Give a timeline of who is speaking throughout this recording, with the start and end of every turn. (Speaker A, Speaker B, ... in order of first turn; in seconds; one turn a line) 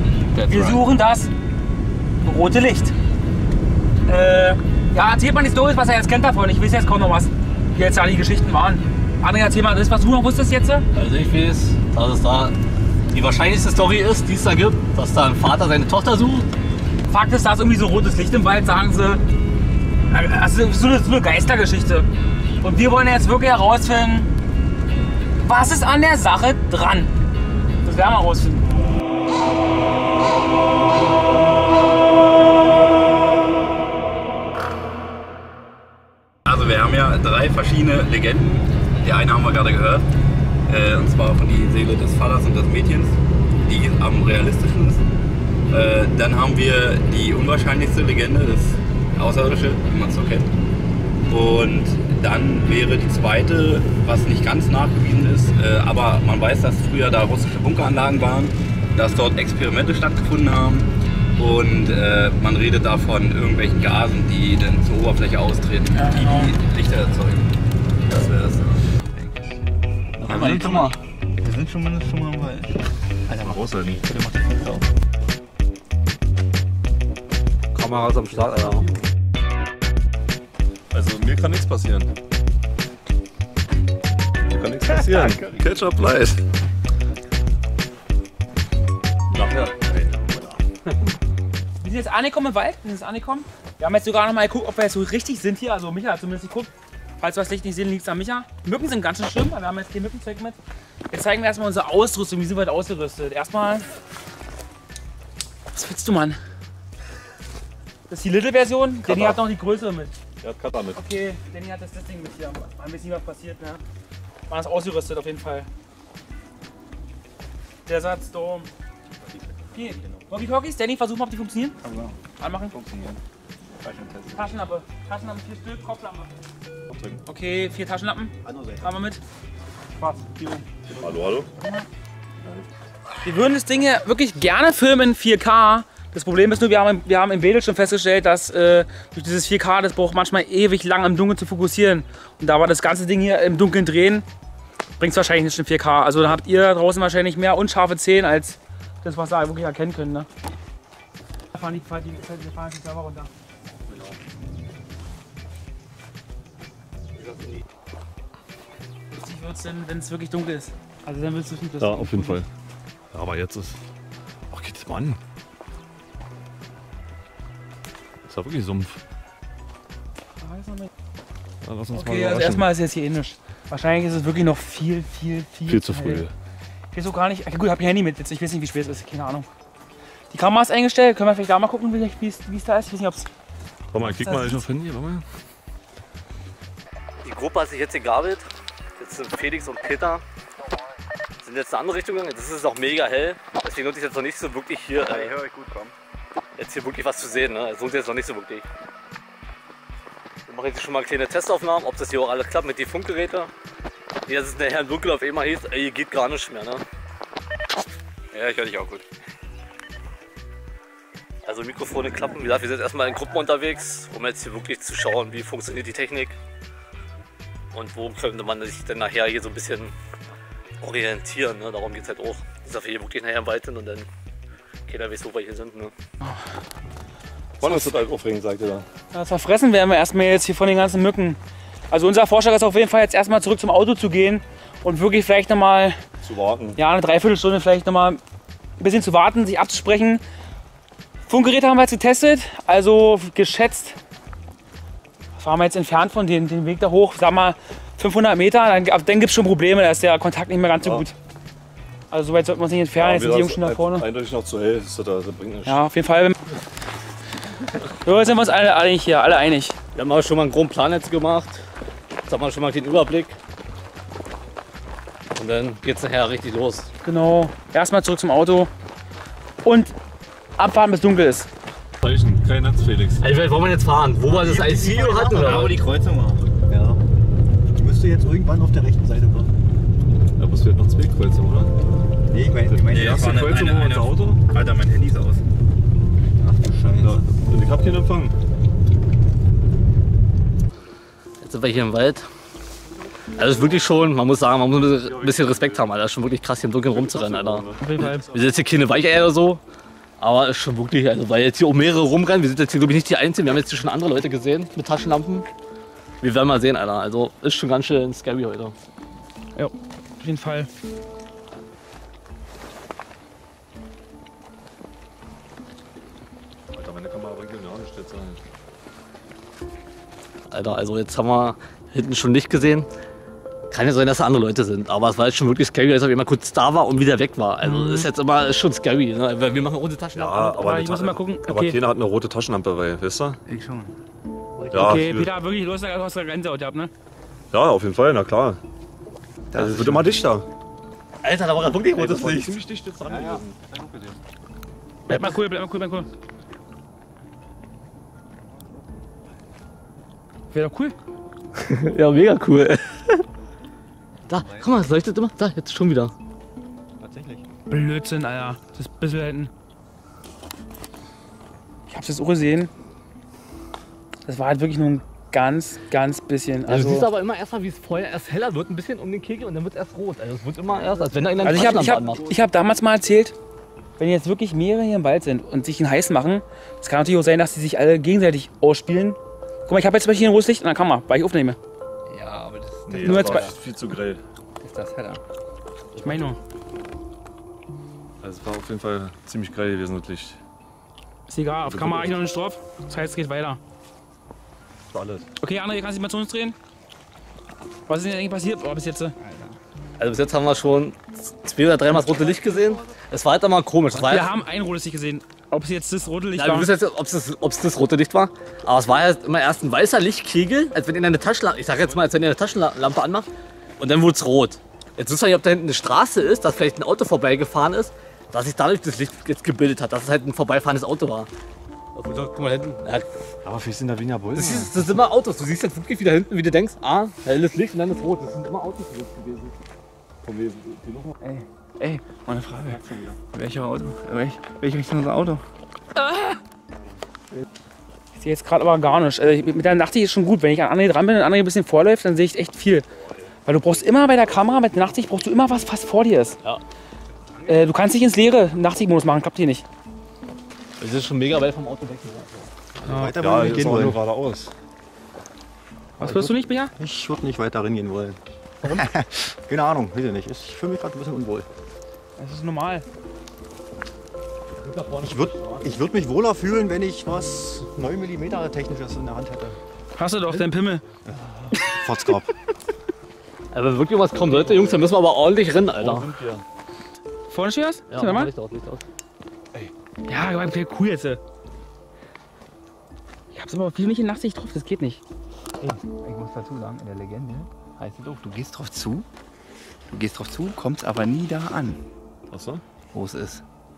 Speaker A: 0.2-0.8
Speaker B: 0.5-1.3
Speaker B: 2.2-2.9
Speaker B: 4.1-10.9
Speaker C: 10.9-12.6
Speaker C: 13.1-16.5
Speaker B: 17.1-19.2
Speaker B: 20.1-22.1
Speaker B: 22.6-24.3
Speaker B: 25.4-27.1
Speaker B: 27.8-28.6
Speaker A: 36.5-40.1
Speaker A: 40.7-45.0
Speaker A: 45.7-50.5
Speaker A: 51.3-67.5
Speaker B: 65.9-66.5
Speaker A: 68.1-69.5
Speaker C: 70.2-71.0
Speaker A: 70.3-70.9
Speaker D: 71.5-72.6
Speaker A: 71.7-72.4
Speaker E: 73.3-74.0
Speaker D: 74.2-74.8
Speaker C: 77.7-78.9
Speaker E: 78.5-78.8
Speaker E: 80.9-82.1
Speaker E: 84.5-86.4
Speaker E: 89.3-90.5
Speaker B: 91.8-100.6
Speaker B: 101.1-103.9
Speaker B: 105.7-106.4
Speaker B: 108.1-110.1
Speaker E: 109.0-109.4
Speaker E: 110.4-111.0
Speaker B: 110.9-113.8
Speaker B: 114.5-115.7
Speaker B: 117.9-118.7
Speaker B: 119.7-121.8
Speaker A: 121.8-122.2
Speaker B: 122.4-122.8
Speaker A: 122.7-123.2
Speaker A: 123.8-124.3
Speaker B: 124.3-126.3
Speaker B: 127.3-129.2
Speaker F: 128.4-128.9
Speaker E: 130.9-131.5
Speaker B: 131.6-131.9
Speaker B: 133.2-144.2
Speaker B: 145.0-150.3
Speaker B: 151.5-153.3
Speaker B: 159.1-162.4
Speaker E: 161.8-162.5
Speaker E: 163.1-163.8
Speaker E: 164.5-165.2
Speaker E: 168.2-169.0
Speaker B: 170.4-170.9
Speaker E: 171.6-172.7
Speaker B: 171.9-176.3
Speaker E: 175.7-176.3
Speaker B: 176.9-179.5
Speaker B: 180.3-183.3
Speaker E: 183.9-185.2
Speaker B: 184.0-184.6
Speaker C: 187.2-190.2
Speaker C: 191.4-195.3
Speaker A: 195.0-195.9
Speaker C: 196.6-198.7
Speaker C: 200.5-203.5
Speaker C: 204.3-206.8
Speaker A: 208.3-209.0
Speaker C: 211.5-216.4
Speaker C: 217.7-219.9
Speaker C: 220.8-224.1
Speaker C: 224.9-225.9
Speaker E: 227.6-228.9
Speaker B: 229.1-231.4
Speaker B: 231.9-236.0
Speaker E: 236.2-236.8
Speaker B: 236.8-238.2
Speaker B: 238.8-240.2
Speaker B: 241.3-244.0
Speaker B: 245.3-251.1
Speaker B: 252.1-254.1
Speaker E: 253.0-255.8
Speaker B: 255.7-256.4
Speaker B: 258.0-259.8
Speaker C: 259.9-261.6
Speaker C: 262.3-263.4
Speaker C: 265.4-266.9
Speaker B: 267.0-268.7
Speaker B: 269.6-269.9
Speaker B: 270.6-271.5
Speaker E: 272.0-273.2
Speaker C: 273.2-275.7
Speaker A: 274.4-276.4
Speaker F: 276.7-277.0
Speaker F: 277.7-279.5
Speaker E: 280.4-281.7
Speaker F: 282.3-283.4
Speaker E: 282.7-284.4
Speaker A: 282.9-285.4
Speaker F: 286.4-287.2
Speaker E: 287.0-288.4
Speaker C: 291.4-292.3
Speaker C: 293.4-299.6
Speaker E: 294.7-296.0
Speaker E: 296.8-298.3
Speaker B: 297.8-298.3
Speaker C: 300.2-305.5
Speaker C: 306.2-308.8
Speaker B: 309.6-310.7
Speaker E: 316.7-318.4
Speaker C: 320.5-322.9
Speaker C: 323.7-330.7
Speaker B: 327.6-328.1
Speaker E: 330.1-333.4
Speaker B: 330.5-331.8
Speaker D: 333.5-333.9
Speaker C: 334.6-335.0
Speaker E: 334.7-335.3
Speaker B: 334.7-336.9
Speaker E: 337.5-338.6
Speaker E: 339.5-340.5
Speaker C: 341.2-342.6
Speaker E: 341.9-343.5
Speaker F: 343.0-344.2
Speaker C: 345.1-345.4
Speaker B: 345.1-346.1
Speaker B: 350.5-351.0
Speaker C: 351.6-353.2
Speaker C: 354.3-356.1
Speaker F: 354.3-354.9
Speaker F: 357.0-357.5
Speaker B: 357.7-359.5
Speaker B: 361.9-362.7
Speaker B: 364.2-367.1
Speaker C: 366.7-372.2
Speaker F: 370.8-371.5
Speaker B: 371.4-373.4
Speaker B: 374.0-381.6
Speaker D: 382.1-383.0
Speaker E: 382.9-384.2
Speaker B: 383.0-383.5
Speaker D: 384.6-385.2
Speaker B: 385.9-386.4
Speaker E: 388.2-390.4
Speaker B: 391.3-393.6
Speaker E: 391.7-392.2
Speaker E: 394.9-395.3
Speaker B: 395.4-396.6
Speaker B: 397.9-399.2
Speaker C: 400.0-404.3
Speaker B: 403.9-406.8
Speaker C: 406.3-413.3
Speaker C: 413.8-421.3
Speaker C: 421.9-423.1
Speaker E: 423.4-425.1
Speaker C: 424.3-429.6
Speaker E: 430.2-431.0
Speaker D: 431.3-432.7
Speaker F: 432.5-433.2
Speaker D: 433.3-435.4
Speaker B: 436.0-436.4
Speaker B: 438.1-442.9
Speaker B: 443.5-446.4
Speaker B: 447.4-449.6
Speaker C: 450.8-452.5
Speaker F: 452.8-454.0
Speaker B: 452.9-453.2
Speaker E: 453.2-454.5
Speaker B: 456.0-456.7
Speaker F: 456.0-461.5
Speaker B: 462.2-462.9
Speaker C: 464.6-465.8
Speaker F: 465.0-469.6
Speaker B: 470.0-470.9
Speaker F: 471.1-472.3
Speaker C: 473.5-476.1
Speaker E: 475.7-476.4
Speaker B: 477.3-478.3
Speaker C: 477.9-478.8
Speaker B: 480.1-481.2
Speaker B: 483.3-485.0
Speaker D: 485.7-489.1
Speaker D: 489.9-491.8
Speaker E: 492.3-492.6
Speaker D: 492.9-493.2
Speaker C: 492.9-493.4